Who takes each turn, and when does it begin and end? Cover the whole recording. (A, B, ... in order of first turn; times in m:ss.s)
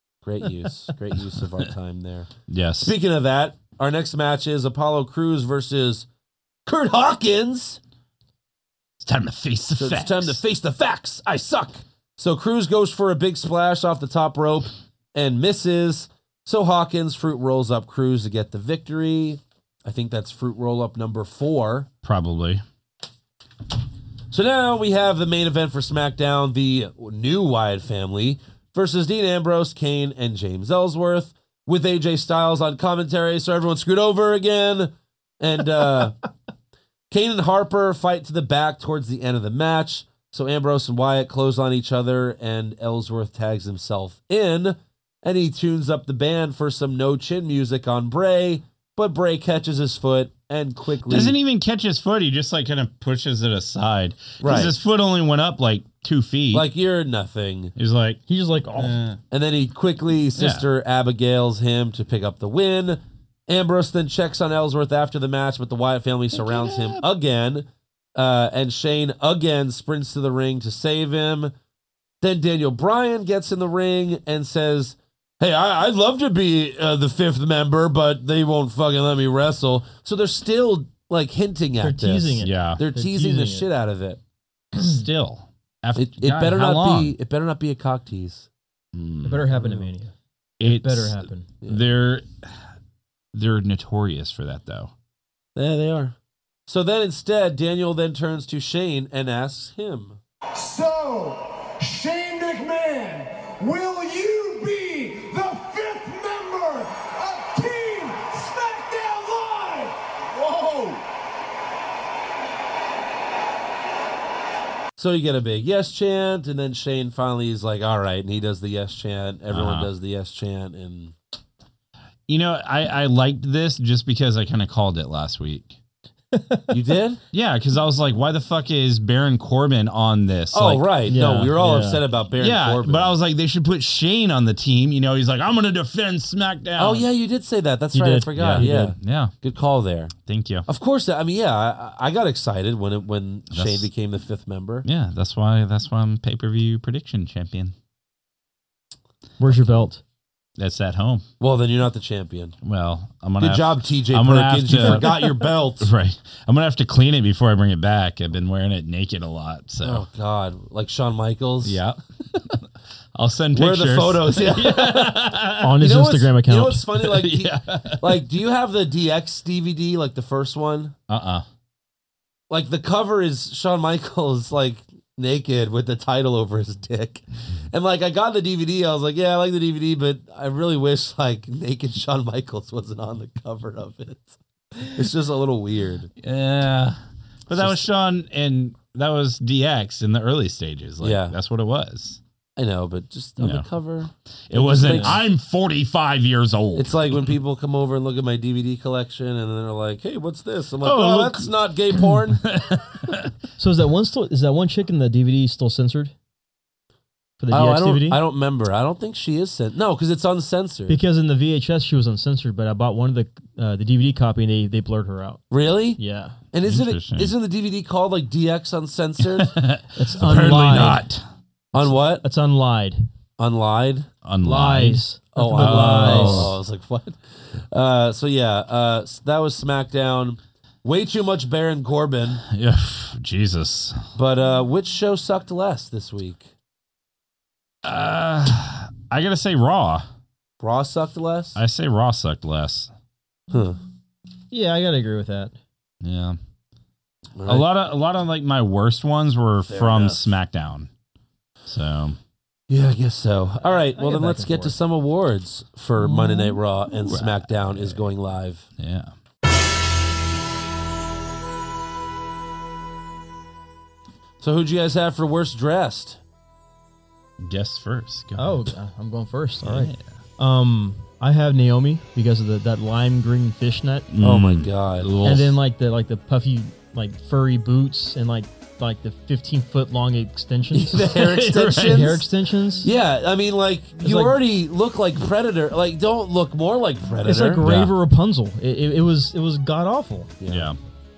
0:00.2-0:02.3 A
0:02.5-0:03.0 B
0:02.8-0:06.1 A
0:06.7-0:07.8 A
0:09.0-0:10.4 B
0:09.8-0:21.9 A
0:22.0-0:22.6 B
0:24.3-0:36.2 A
0:37.1-0:51.4 A
0:51.1-0:56.7 B
0:54.4-0:54.8 A
0:56.5-0:57.8 A
0:57.8-0:58.2 B
0:58.3-0:59.0 C
0:58.8-0:59.2 B
0:59.3-1:11.5 A
1:00.4-1:00.7 B
1:06.3-1:07.0 B
1:12.2-1:24.2 A
1:21.8-1:23.7 C
1:22.4-1:22.8 B
1:24.7-1:27.2 B
1:26.0-1:28.5 A
1:28.9-1:29.6 B
1:29.2-1:31.5 C
1:30.6-1:32.6 B
1:33.3-1:34.9 B
1:35.6-1:36.2 A
1:36.7-1:40.2 A
1:40.6-1:51.0 D
1:55.0-2:01.1 A
1:59.5-1:59.9 B
2:02.3-2:05.8 B
2:06.3-2:06.7 C
2:06.7-2:07.2 A
2:07.3-2:11.0 B
2:10.5-2:13.2 A
2:11.1-2:12.0 C
2:12.4-2:17.1 B
2:16.8-2:20.2 A
2:17.9-2:18.9 C
2:18.4-2:19.3 B
2:20.3-2:20.7 B
2:20.7-2:24.9 A
2:23.5-2:23.9 B
2:24.8-2:27.8 B
2:29.4-2:30.0 C
2:30.6-2:31.2 B
2:31.4-2:32.6 A
2:32.6-2:40.0 B
2:33.4-2:35.9 A
2:34.9-2:35.2 C
2:39.8-2:41.8 A
2:41.6-2:42.6 B
2:43.2-2:45.8 B
2:43.5-2:51.0 A
2:45.6-2:46.9 C
2:47.0-2:48.2 B
2:51.1-2:51.5 B
2:52.5-3:06.1 A
3:06.2-3:12.2 B
3:07.5-3:07.8 A
3:11.0-3:11.4 A
3:12.6-3:15.2 A
3:13.4-3:13.7 B
3:14.5-3:17.3 B
3:16.8-3:22.4 A
3:20.8-3:23.3 B
3:23.6-3:26.1 C
3:27.4-3:28.2 C
3:27.5-3:31.0 A
3:30.9-3:35.4 C
3:35.5-3:36.0 A
3:36.0-3:36.4 C
3:36.5-3:39.6 A
3:36.6-3:37.3 B
3:39.2-3:41.2 B
3:40.0-3:41.0 C
3:41.7-3:42.2 A
3:41.8-3:43.1 C
3:43.4-3:44.1 A
3:44.2-3:46.6 B
3:44.4-3:46.5 C
3:45.4-3:47.2 A
3:47.7-3:52.4 A
3:52.5-3:54.0 B
3:54.2-3:56.5 A
3:57.8-4:00.1 B
4:00.6-4:01.6 A
4:01.6-4:02.9 B
4:03.5-4:03.8 A
4:04.5-4:05.6 C
4:06.0-4:06.4 B
4:07.4-4:07.7 A
4:07.4-4:10.9 B
4:09.7-4:10.3 A
4:11.7-4:12.2 B
4:12.7-4:18.7 A
4:13.7-4:14.8 C
4:16.9-4:18.0 B
4:18.8-4:19.1 B
4:24.4-4:26.2 A
4:27.4-4:28.7 B
4:28.4-4:34.1 C
4:29.6-4:30.0 B
4:34.1-4:35.6 B
4:34.2-4:35.1 A
4:35.2-4:42.9 C
4:40.7-4:42.2 A
4:41.0-4:42.1 B
4:42.8-4:47.7 A
4:44.0-4:44.4 C
4:47.2-4:50.3 C
4:47.6-4:47.9 B
4:50.4-4:50.7 A
4:50.5-4:50.8 B